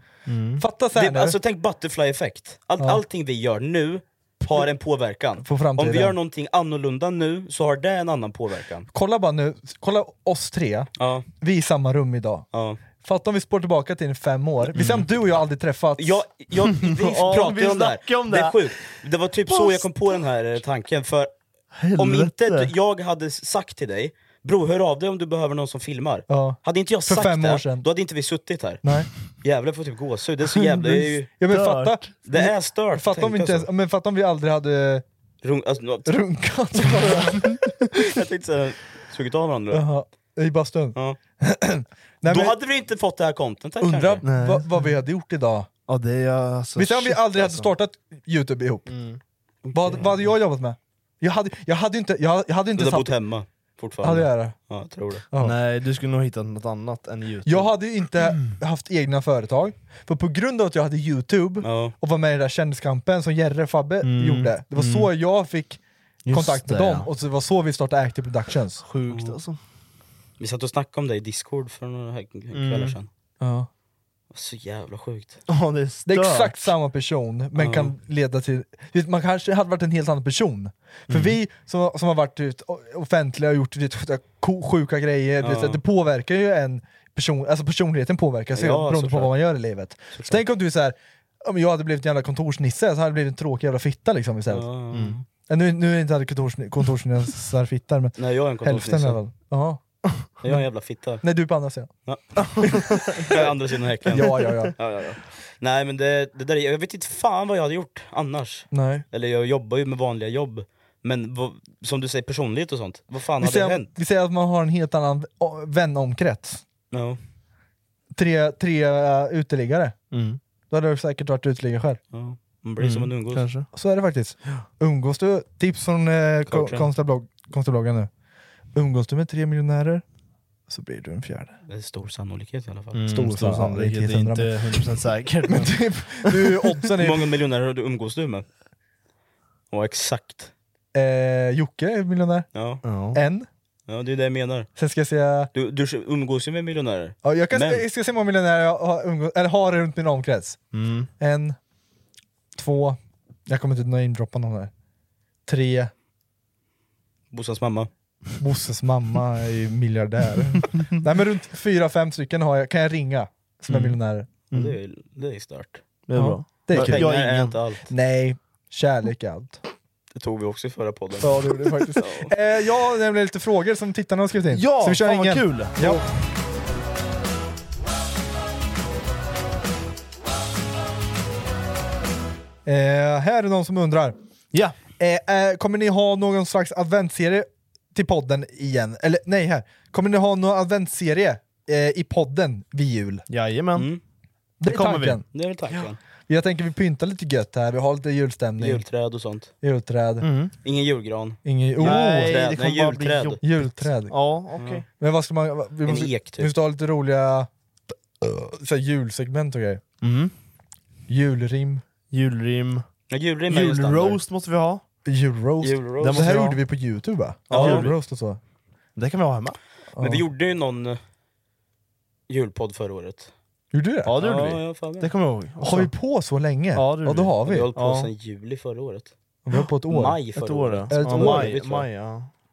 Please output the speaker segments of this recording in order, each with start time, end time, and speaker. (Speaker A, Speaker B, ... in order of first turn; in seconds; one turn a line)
Speaker A: 0.3-0.6
Speaker B: 0.6-1.4
Speaker C: 0.9-8.9
Speaker B: 5.4-6.1
Speaker B: 8.9-10.9
Speaker C: 11.0-11.3
Speaker B: 11.4-12.4
Speaker C: 12.5-12.8
Speaker B: 13.0-16.2
Speaker C: 14.7-15.0
Speaker A: 14.8-15.0
Speaker C: 16.0-21.3
Speaker A: 16.6-18.7
Speaker A: 19.5-19.8
Speaker A: 21.8-22.7
Speaker C: 21.9-28.8
Speaker B: 26.3-27.9
Speaker B: 28.8-29.1
Speaker C: 29.4-31.3
Speaker B: 30.6-35.0
Speaker A: 31.5-32.1
Speaker C: 32.3-33.7
Speaker C: 35.4-36.2
Speaker B: 36.0-38.0
Speaker A: 37.0-37.5
Speaker C: 37.9-39.9
Speaker B: 39.7-42.5
Speaker C: 42.2-44.2
Speaker B: 43.8-45.7
Speaker A: 44.2-44.9
Speaker A: 45.9-47.7
Speaker B: 46.8-48.9
Speaker A: 48.9-49.2
Speaker C: 49.7-50.1
Speaker B: 49.7-53.1
Speaker C: 52.8-55.2
Speaker B: 54.0-54.5
Speaker A: 55.4-57.7
Speaker B: 57.5-68.8
Speaker C: 61.6-61.9
Speaker A: 64.0-65.1
Speaker A: 66.2-67.1
Speaker A: 68.8-69.6
Speaker C: 69.1-69.4
Speaker C: 70.4-73.1
Speaker A: 72.5-73.0
Speaker B: 73.4-73.7
Speaker C: 74.3-75.4
Speaker A: 75.5-76.7
Speaker B: 76.1-94.7
Speaker C: 77.5-77.9
Speaker A: 81.1-81.4
Speaker C: 85.4-85.8
Speaker C: 88.5-89.3
Speaker C: 94.5-95.2
Speaker A: 94.9-95.2
Speaker B: 95.5-99.8
Speaker C: 98.2-99.2
Speaker C: 100.4-101.2
Speaker B: 101.2-101.9
Speaker A: 102.4-103.5
Speaker B: 102.6-103.0
Speaker C: 103.3-113.9
Speaker B: 104.1-104.7
Speaker A: 104.1-104.7
Speaker B: 108.7-109.0
Speaker B: 113.4-116.6
Speaker C: 116.9-117.2
Speaker B: 118.1-120.0
Speaker A: 120.1-120.4
Speaker B: 120.7-122.0
Speaker C: 122.1-123.5
Speaker A: 122.8-123.7
Speaker B: 123.7-128.1
Speaker C: 126.5-126.9
Speaker B: 128.7-130.0
Speaker B: 130.7-131.6
Speaker C: 131.7-133.0
Speaker A: 132.9-136.8
Speaker B: 133.1-134.6
Speaker B: 135.5-137.3
Speaker C: 137.0-138.4
Speaker C: 139.7-140.5
Speaker B: 140.9-142.5
Speaker C: 142.5-142.8
Speaker A: 142.8-143.2
Speaker B: 143.1-143.5
Speaker C: 143.9-144.7
Speaker B: 144.8-145.5
Speaker C: 145.5-147.8
Speaker B: 147.2-150.6
Speaker A: 150.7-151.1
Speaker B: 151.2-151.6
Speaker B: 152.6-154.7
Speaker B: 155.5-155.9
Speaker C: 157.3-157.9
Speaker B: 158.4-164.3
Speaker C: 164.5-165.8
Speaker A: 166.1-167.6
Speaker B: 166.1-167.1
Speaker C: 166.7-167.9
Speaker B: 167.9-169.6
Speaker C: 170.1-172.3
Speaker B: 171.2-176.1
Speaker A: 174.5-176.0
Speaker B: 182.7-184.2
Speaker B: 185.0-193.3
Speaker A: 193.3-193.9
Speaker C: 193.7-194.0
Speaker B: 194.6-195.2
Speaker A: 194.6-195.8
Speaker C: 195.3-196.0
Speaker B: 196.3-198.8
Speaker C: 198.6-199.5
Speaker B: 199.6-200.3
Speaker A: 200.2-200.5
Speaker C: 200.6-203.4
Speaker B: 201.4-202.4
Speaker A: 201.8-203.4
Speaker B: 203.4-204.2
Speaker A: 204.0-204.8
Speaker C: 204.6-204.8
Speaker B: 205.0-207.5
Speaker C: 205.9-206.5
Speaker B: 208.2-209.8
Speaker A: 210.0-210.3
Speaker B: 211.1-211.8
Speaker A: 212.1-212.8
Speaker C: 213.1-214.2
Speaker A: 213.5-214.8
Speaker B: 215.1-218.4
Speaker C: 215.6-216.3
Speaker A: 216.0-216.6
Speaker A: 217.5-217.9
Speaker C: 217.5-217.9
Speaker A: 218.9-219.6
Speaker B: 219.9-220.2
Speaker C: 220.0-221.0
Speaker C: 222.3-223.3
Speaker B: 223.7-224.2
Speaker A: 224.1-225.9
Speaker C: 224.2-225.1
Speaker B: 225.6-227.7
Speaker A: 226.7-228.1
Speaker C: 227.4-229.1
Speaker B: 229.4-230.2
Speaker C: 229.9-231.9
Speaker A: 230.3-232.3
Speaker B: 230.9-231.5